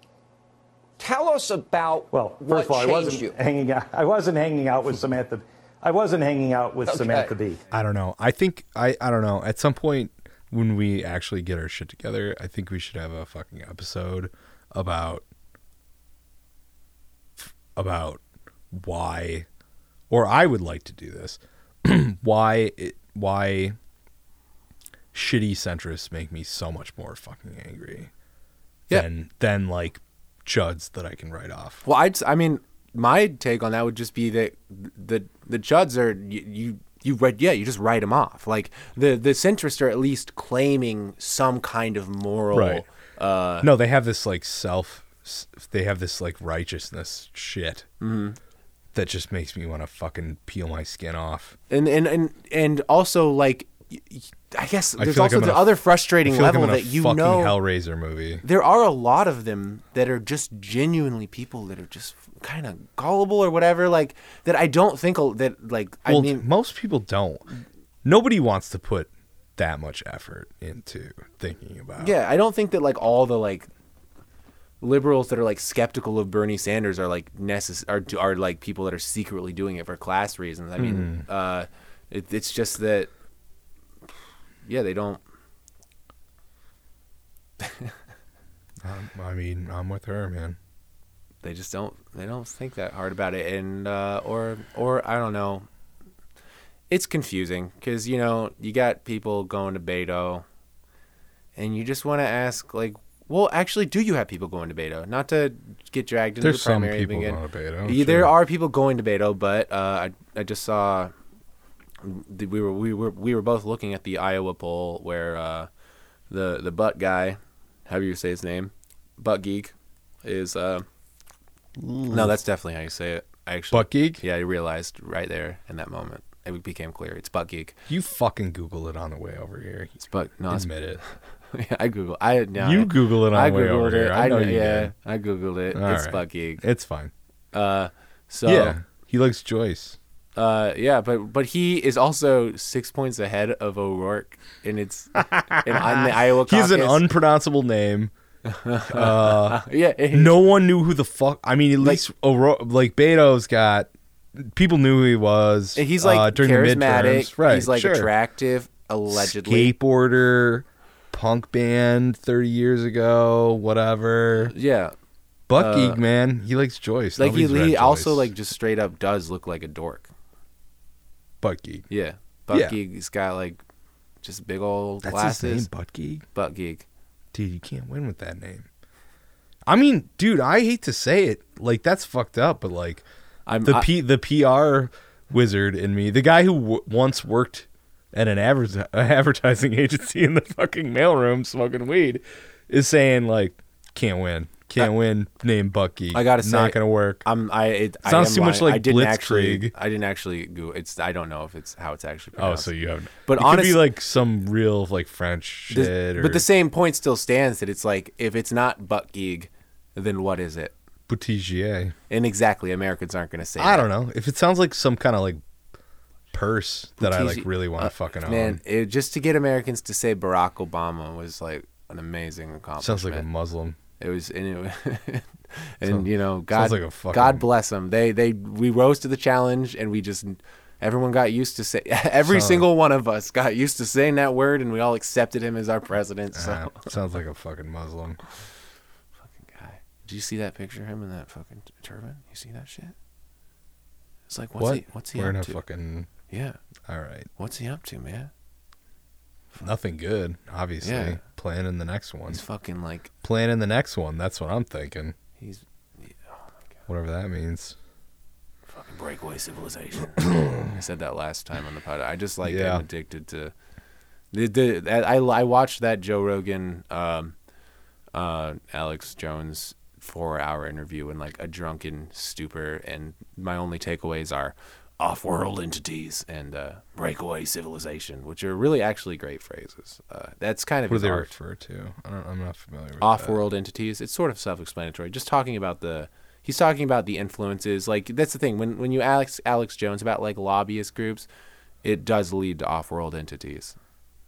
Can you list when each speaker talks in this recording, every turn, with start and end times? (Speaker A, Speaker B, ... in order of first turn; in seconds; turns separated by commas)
Speaker A: 1.0-3.4, Speaker B: 2.1-7.6, Speaker A: 6.9-7.3, Speaker C: 7.7-15.2, Speaker C: 17.4-19.5, Speaker C: 20.1-23.8, Speaker C: 25.1-28.1, Speaker C: 28.9-31.8, Speaker D: 31.8-43.7, Speaker C: 42.5-42.9, Speaker C: 43.6-47.9, Speaker D: 48.0-48.4, Speaker C: 48.9-51.6, Speaker D: 51.7-57.6, Speaker C: 55.0-58.4, Speaker D: 58.4-66.5, Speaker C: 66.1-67.5, Speaker C: 68.0-72.1, Speaker D: 72.0-73.7, Speaker D: 74.8-83.1, Speaker C: 80.8-81.2, Speaker D: 84.7-85.2, Speaker D: 87.6-87.9, Speaker C: 88.8-90.6, Speaker D: 91.4-95.7, Speaker D: 96.9-100.5, Speaker D: 101.6-111.1, Speaker C: 106.4-108.3, Speaker D: 112.0-115.7, Speaker D: 116.3-120.8, Speaker C: 121.8-122.4, Speaker D: 122.1-127.8, Speaker C: 123.7-124.2, Speaker C: 127.9-130.0, Speaker D: 130.0-136.6, Speaker C: 130.5-131.0, Speaker C: 132.6-134.9, Speaker C: 135.7-137.1, Speaker D: 137.5-138.8, Speaker C: 138.5-140.0, Speaker D: 140.4-147.0, Speaker C: 145.2-148.1, Speaker D: 148.5-150.4, Speaker C: 148.9-158.1, Speaker D: 155.8-159.7, Speaker C: 159.1-164.5, Speaker D: 164.5-164.9, Speaker C: 165.5-168.3, Speaker D: 165.6-166.0, Speaker D: 167.2-170.1, Speaker C: 171.4-171.9, Speaker D: 171.9-173.6, Speaker D: 174.2-175.7, Speaker C: 175.0-176.2, Speaker D: 176.3-176.9, Speaker C: 177.3-178.7, Speaker C: 179.7-183.1, Speaker D: 183.5-183.9, Speaker C: 183.6-197.2, Speaker D: 196.1-202.7, Speaker C: 198.0-199.7, Speaker C: 202.4-206.5, Speaker D: 203.2-203.9, Speaker D: 205.7-210.7, Speaker C: 211.1-211.9, Speaker D: 212.1-213.9, Speaker C: 213.6-215.4, Speaker C: 216.3-218.6, Speaker D: 217.0-223.3, Speaker C: 222.8-223.8, Speaker D: 224.0-236.9, Speaker C: 225.8-227.5, Speaker C: 232.2-232.7, Speaker C: 236.3-238.2, Speaker D: 239.4-242.9, Speaker D: 244.3-245.6, Speaker C: 244.6-246.1, Speaker D: 246.3-246.6, Speaker C: 246.9-247.3, Speaker D: 247.4-248.3, Speaker C: 249.6-252.4, Speaker D: 250.8-251.2, Speaker D: 252.3-253.1, Speaker C: 253.2-255.2, Speaker D: 255.4-256.2, Speaker C: 256.9-257.8, Speaker D: 258.7-263.5, Speaker C: 260.3-260.6, Speaker C: 262.4-262.8, Speaker D: 264.3-267.4, Speaker D: 268.1-281.3, Speaker C: 280.9-283.4, Speaker D: 283.0-291.3, Speaker D: 291.8-293.8